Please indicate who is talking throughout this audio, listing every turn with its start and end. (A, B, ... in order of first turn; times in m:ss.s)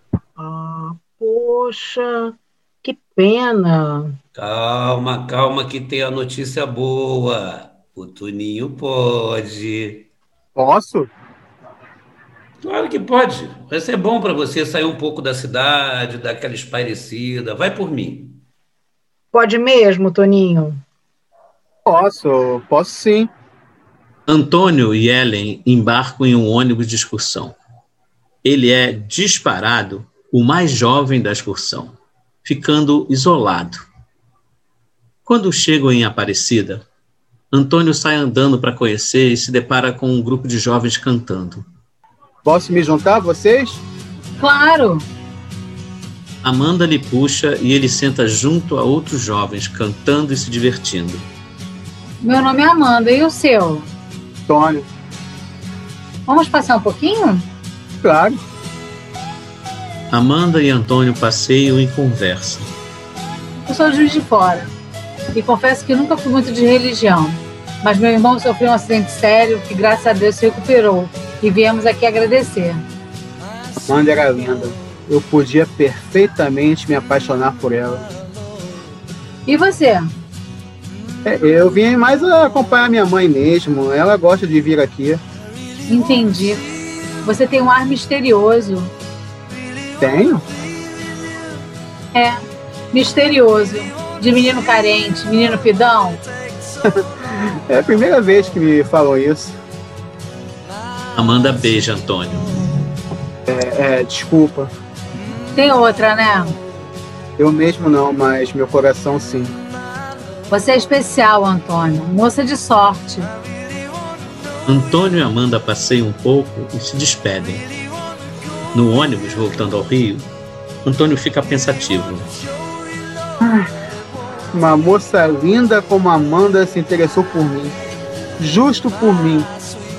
0:00.4-0:04.2 A
0:04.4-0:10.1 B
0:10.6-0:11.1 C
0:12.6-0:18.4 B
0:19.3-0:20.8 A
0:21.9-0:23.3 C
0:24.3-0:27.6 D
0:28.4-0:33.9 D
0:35.3-0:36.8 D
0:37.5-0:41.6 D
0:42.4-0:43.8 C
0:44.4-0:45.0 E
0:46.4-0:51.2 D
0:52.2-0:53.9 E
0:54.5-0:54.8 C
0:56.3-0:57.5 E
0:58.0-0:58.4 C
1:00.1-1:02.7 D
1:03.7-1:04.7 E
1:05.3-1:12.8 E
1:13.9-1:18.1 C
1:19.5-1:20.1 E
1:21.2-1:25.2 C
1:25.9-1:26.7 E
1:27.2-1:28.9 E
1:30.0-1:30.4 C
1:32.1-1:32.4 E
1:32.9-1:36.2 E
1:36.8-1:39.6 C
1:41.2-1:42.5 D
1:43.5-1:44.7 C
1:45.6-1:46.6 E
1:47.4-1:49.6 C
1:50.5-1:53.3 E
1:54.7-1:57.7 D
1:58.7-2:00.3 D
2:00.8-2:02.3 D
2:03.4-2:03.7 C
2:04.5-2:07.8 C
2:08.4-2:09.5 C